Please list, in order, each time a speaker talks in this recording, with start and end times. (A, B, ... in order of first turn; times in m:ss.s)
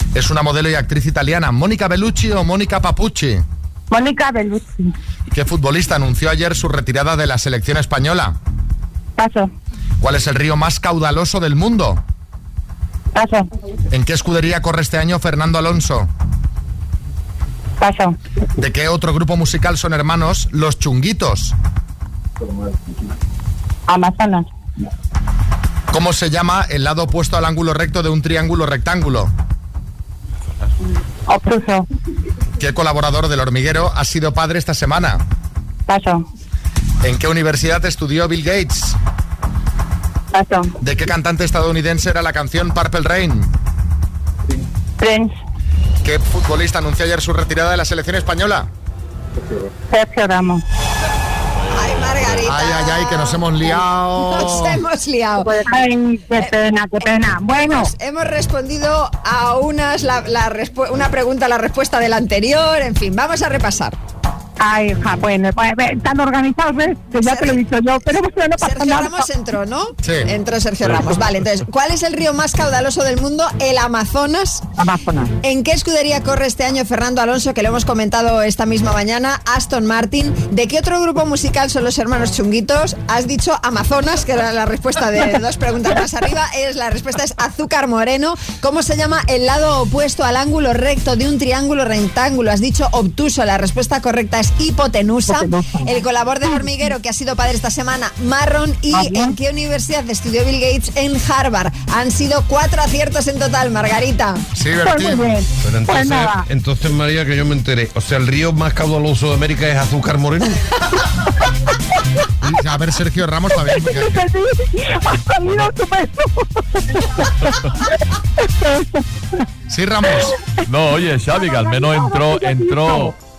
0:00.1-0:03.4 A
0:03.9-0:04.9 B
0:05.3-0:08.4 A
0:09.2-0:09.5 B
0:10.0-0:12.0 A
0:13.1-0:13.4 B
0:13.9-0:16.1 A
0:17.8-0:18.1 B
0:18.6-0:21.5 A
0:23.9-0:24.4 B
0:25.9-0:29.3 A
0:31.3-0:31.8 B
0:32.6-0:35.2 A
0:35.9-0:36.2 B
0:37.0-0:39.0 A
0:40.3-0:40.7 B
0:40.8-0:43.5 A
0:45.0-0:45.3 B
0:46.0-0:48.7 A
0:49.9-0:50.6 B
0:51.7-0:53.4 C
0:52.4-0:54.8 A
0:54.3-0:55.6 C
0:55.4-0:57.9 B
0:56.4-1:04.0 C
1:04.6-1:09.2 B
1:07.2-1:07.6 C
1:08.6-1:14.6 C
1:10.0-1:10.3 A
1:14.8-1:15.3 B
1:15.4-1:44.4 C
1:35.3-1:35.8 B
1:38.9-1:39.3 B
1:44.6-1:45.3 A
1:44.8-1:46.4 B
1:45.6-1:50.6 D
1:52.4-1:54.2 A
1:53.7-1:57.3 B
1:58.6-1:58.8 B
1:59.7-2:00.3 A
2:00.6-2:03.1 E
2:01.4-2:03.1 B